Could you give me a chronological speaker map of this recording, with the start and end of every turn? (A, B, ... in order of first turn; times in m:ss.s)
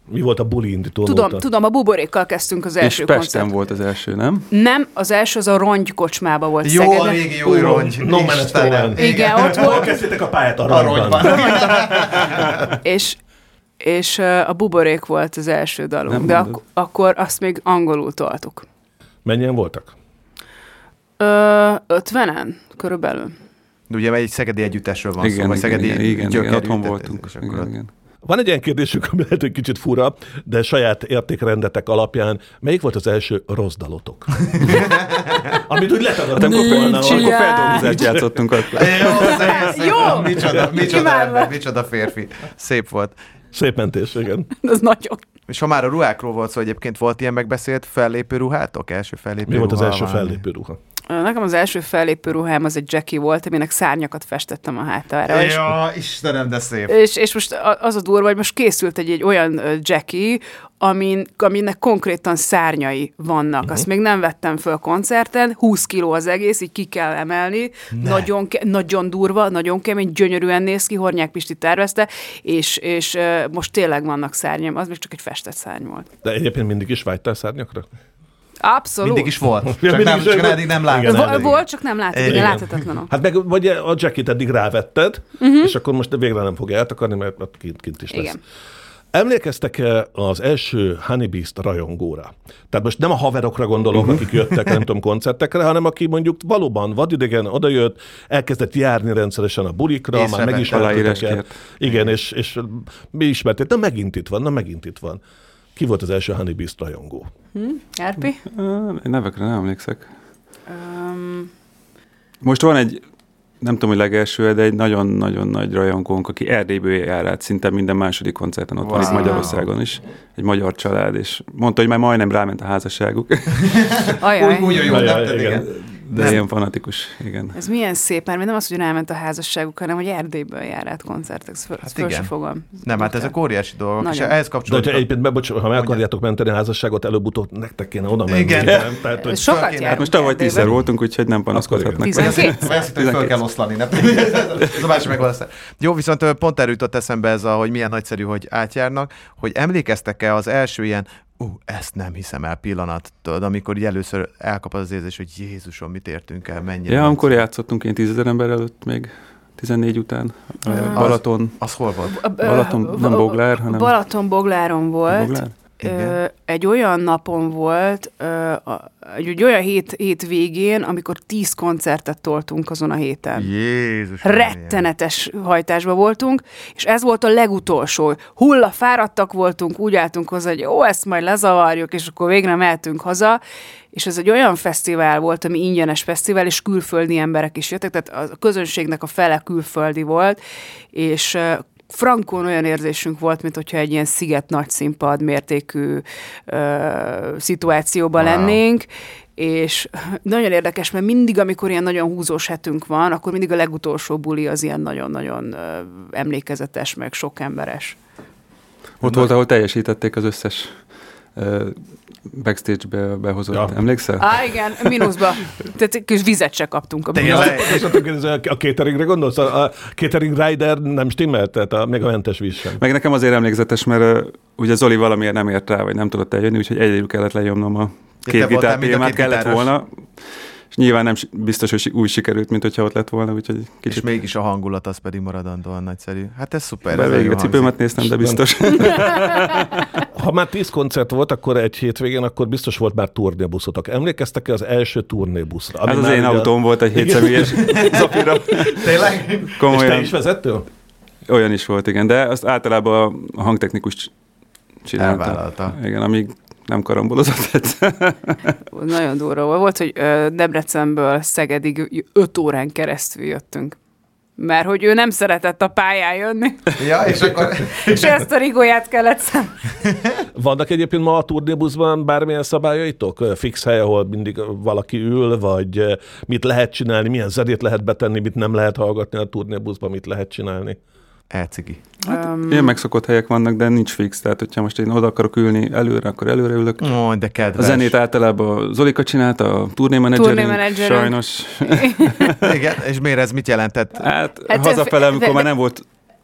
0:00.1-0:01.4 A
0:01.0-0:03.5 B
0:02.8-0:04.5 C
0:04.5-0:07.2 B
0:06.6-0:09.9 D
0:07.4-0:12.6 A
0:08.9-0:10.0 B
0:10.6-0:12.6 D
0:12.8-0:13.2 B
0:13.8-0:18.6 B
0:16.1-0:16.6 C
0:19.2-0:19.9 A
0:21.2-0:23.3 B
0:23.9-0:27.7 D
0:25.2-0:27.9 C
0:28.2-0:39.1 A
0:34.5-0:35.5 D
0:36.4-0:39.5 C
0:36.4-0:38.0 B
0:38.7-0:43.2 D
0:39.1-0:41.6 B
0:40.4-0:40.6 A
0:43.5-0:44.5 A
0:44.6-0:45.2 B
0:45.5-0:50.4 D
0:49.4-0:50.8 A
0:51.1-0:55.7 B
0:55.2-0:56.9 D
0:56.9-1:16.1 B
1:07.9-1:08.3 D
1:16.2-1:17.8 A
1:18.6-1:19.3 B
1:19.0-1:21.6 D
1:19.7-1:21.6 A
1:21.0-1:23.1 B
1:22.1-1:22.6 D
1:22.2-1:28.4 A
1:25.4-1:25.7 B
1:28.1-1:28.4 B
1:29.1-1:45.2 A
1:40.1-1:41.2 D
1:40.6-1:41.5 C
1:41.8-1:42.1 D
1:45.8-1:47.3 A
1:47.5-1:48.4 B
1:48.4-1:50.1 C
1:50.7-1:51.5 B
1:52.4-1:53.0 C
1:53.6-2:03.9 C
1:58.8-1:59.6 D
1:59.0-1:59.5 B
2:03.6-2:06.4 D
2:04.2-2:04.8 B
2:04.8-2:05.8 A
2:06.0-2:07.6 C
2:07.5-2:13.3 B
2:11.8-2:15.1 D
2:14.0-2:14.3 B
2:14.7-2:19.4 A
2:15.7-2:16.0 D
2:18.2-2:20.1 D
2:19.2-2:20.7 B
2:19.9-2:23.4 C
2:21.5-2:22.0 A
2:22.0-2:22.7 B
2:22.1-2:37.4 D
2:36.9-2:41.5 C
2:40.6-2:41.1 B
2:40.9-2:42.2 D
2:42.1-2:53.5 B
2:42.4-2:43.9 C
2:45.1-2:45.5 C
2:45.8-2:46.2 D
2:53.4-2:54.8 D
2:54.2-3:03.4 B
3:03.9-3:10.4 B
3:10.9-3:18.8 B
3:18.2-3:18.6 D
3:19.4-3:28.0 B
3:29.0-3:30.7 C
3:29.0-3:29.3 D
3:31.4-3:34.2 C
3:33.5-3:33.8 A
3:34.2-3:37.6 B
3:37.1-3:37.9 D
3:37.2-3:42.8 A
3:42.8-3:49.9 C
3:48.2-3:49.7 D
3:50.7-3:54.0 C
3:53.8-3:57.8 D
3:56.9-3:59.8 C
3:58.1-3:59.0 A
4:00.1-4:08.1 A
4:05.8-4:09.0 C
4:07.6-4:09.6 D
4:09.6-4:10.2 C
4:09.7-4:10.6 A
4:11.3-4:14.1 C
4:14.8-4:18.4 C
4:15.0-4:15.8 D
4:18.7-4:23.8 B
4:24.4-4:26.8 B
4:26.8-4:28.1 D
4:27.7-4:29.6 B
4:30.3-4:40.8 A
4:41.3-4:41.8 D
4:42.0-4:42.8 B
4:42.1-4:46.9 C
4:46.8-4:47.9 D
4:47.6-4:52.6 C
4:50.1-4:52.4 B
4:52.4-4:54.1 D
4:54.0-4:55.8 C
4:54.5-4:55.5 B